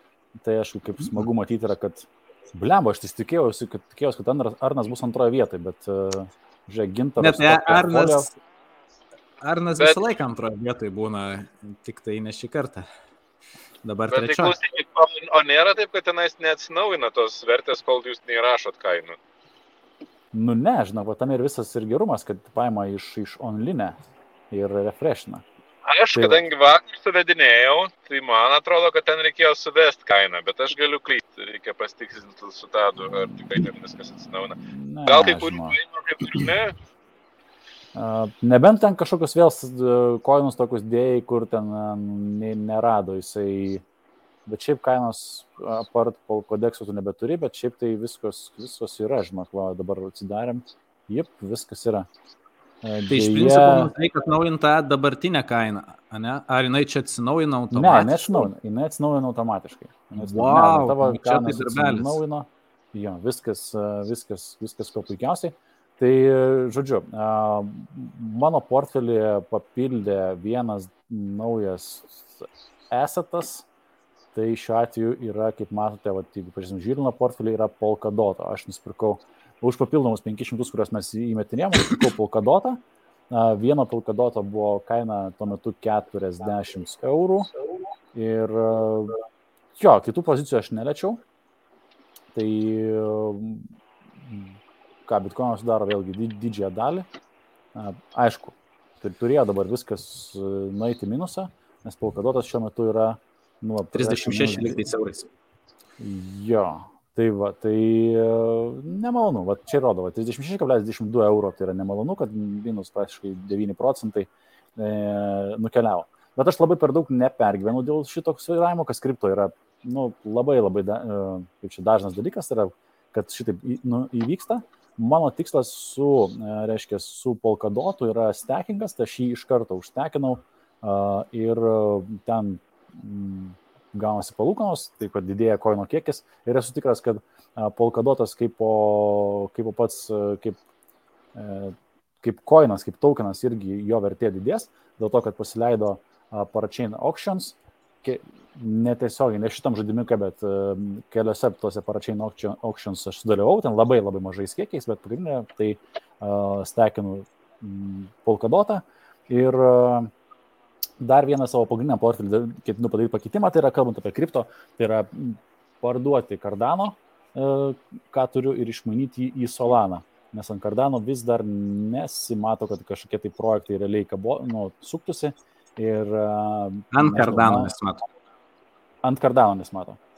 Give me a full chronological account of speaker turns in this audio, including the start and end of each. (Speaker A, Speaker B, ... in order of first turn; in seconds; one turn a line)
Speaker A: 0.4-8.3
Speaker B: 7.2-8.3
Speaker B: 9.4-12.9
Speaker B: 13.8-14.5
Speaker C: 14.1-19.2
Speaker A: 20.3-24.0
Speaker A: 24.5-25.4
Speaker C: 25.9-36.8
Speaker A: 26.1-26.4
Speaker A: 34.5-35.8
Speaker A: 37.9-43.8
Speaker A: 44.5-52.1
Speaker A: 52.8-53.9
Speaker B: 53.1-58.5
Speaker A: 57.7-73.7
Speaker B: 60.2-62.2
Speaker A: 74.3-87.5
Speaker A: 88.1-89.1
Speaker A: 89.8-91.2
Speaker A: 92.3-97.1
Speaker A: 97.7-104.8
Speaker B: 103.9-105.3
Speaker A: 106.0-140.6
Speaker A: 141.3-160.1
Speaker A: 161.0-177.7
Speaker B: 176.9-178.0
Speaker A: 179.0-180.0